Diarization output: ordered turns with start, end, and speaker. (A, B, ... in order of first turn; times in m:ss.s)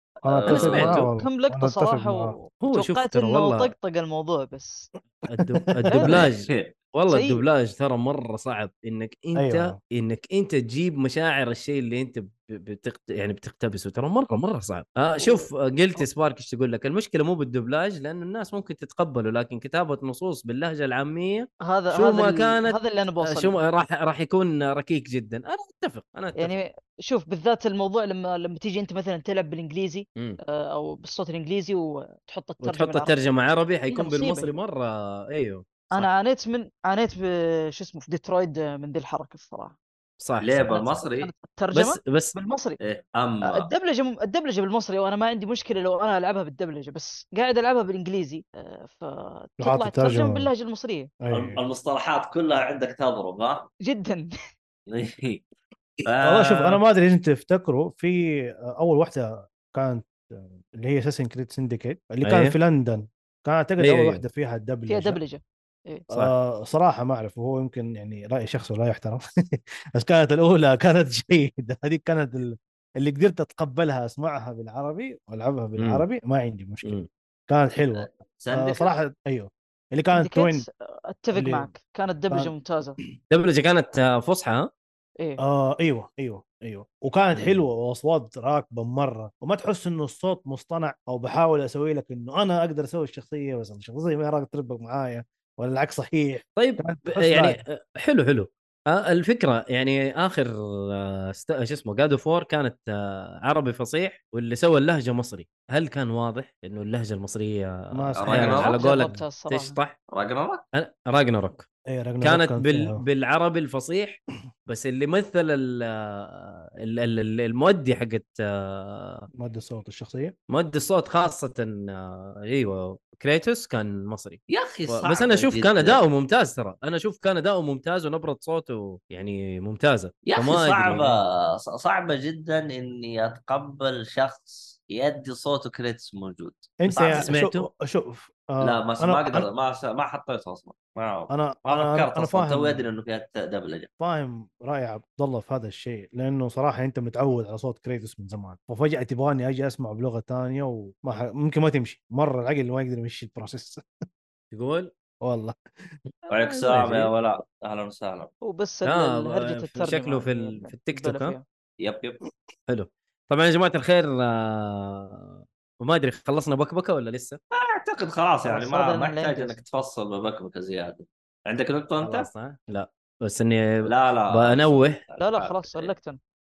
0:00.2-0:01.1 A
0:00.2-0:02.4 B
0:00.5-0:01.0 C
0:01.2-0:04.9 D
0:02.6-0:03.7 C
0:05.3-0:26.5 C
0:05.4-0:06.2 B
0:05.9-0:06.2 D
0:07.1-0:07.4 D
0:09.3-0:09.8 B
0:15.2-0:16.0 D
0:21.6-0:23.6 D
0:26.4-0:33.2 D
0:32.6-0:36.1 C
0:33.9-0:34.5 D
0:35.9-0:39.7 D
0:40.2-0:40.7 C
0:40.4-0:41.3 A
0:40.7-0:42.8 D
0:41.7-0:42.3 C
0:42.8-0:43.7 A
0:43.4-0:51.1 D
0:49.6-0:50.5 B
0:51.2-0:51.6 B
0:51.3-0:53.7 A
0:53.8-0:54.3 D
0:54.9-0:55.4 A
0:56.0-0:56.8 A
0:56.2-1:05.2 B
1:02.2-1:02.5 C
1:03.8-1:04.2 C
1:04.9-1:06.0 D
1:06.1-1:17.0 B
1:15.8-1:16.0 C
1:17.5-1:20.6 B
1:17.9-1:18.9 A
1:20.1-1:23.0 D
1:21.3-1:21.7 B
1:23.3-1:24.7 C
1:25.4-1:37.6 B
1:36.6-1:49.9 C
1:47.9-1:48.6 B
1:48.2-1:48.8 A
1:48.6-1:49.8 D
1:50.1-1:50.6 A
1:50.7-1:51.6 C
1:51.9-1:53.0 B
1:52.2-1:59.3 C
1:59.4-2:00.3 B
2:00.5-2:11.2 C
2:04.5-2:06.0 A
2:10.2-2:17.3 A
2:16.8-2:19.5 B
2:17.1-2:17.6 C
2:18.6-2:23.9 A
2:21.3-2:22.8 B
2:24.0-2:33.8 B
2:34.5-2:34.9 C
2:35.2-2:35.6 B
2:36.3-2:38.3 A
2:36.4-2:37.1 C
2:38.4-2:41.4 D
2:38.8-2:41.4 C
2:41.8-2:42.2 A
2:42.7-2:47.4 C
2:47.5-2:52.3 A
2:48.4-2:49.6 D
2:52.0-2:55.0 C
2:53.8-2:55.9 A
2:55.2-2:56.2 D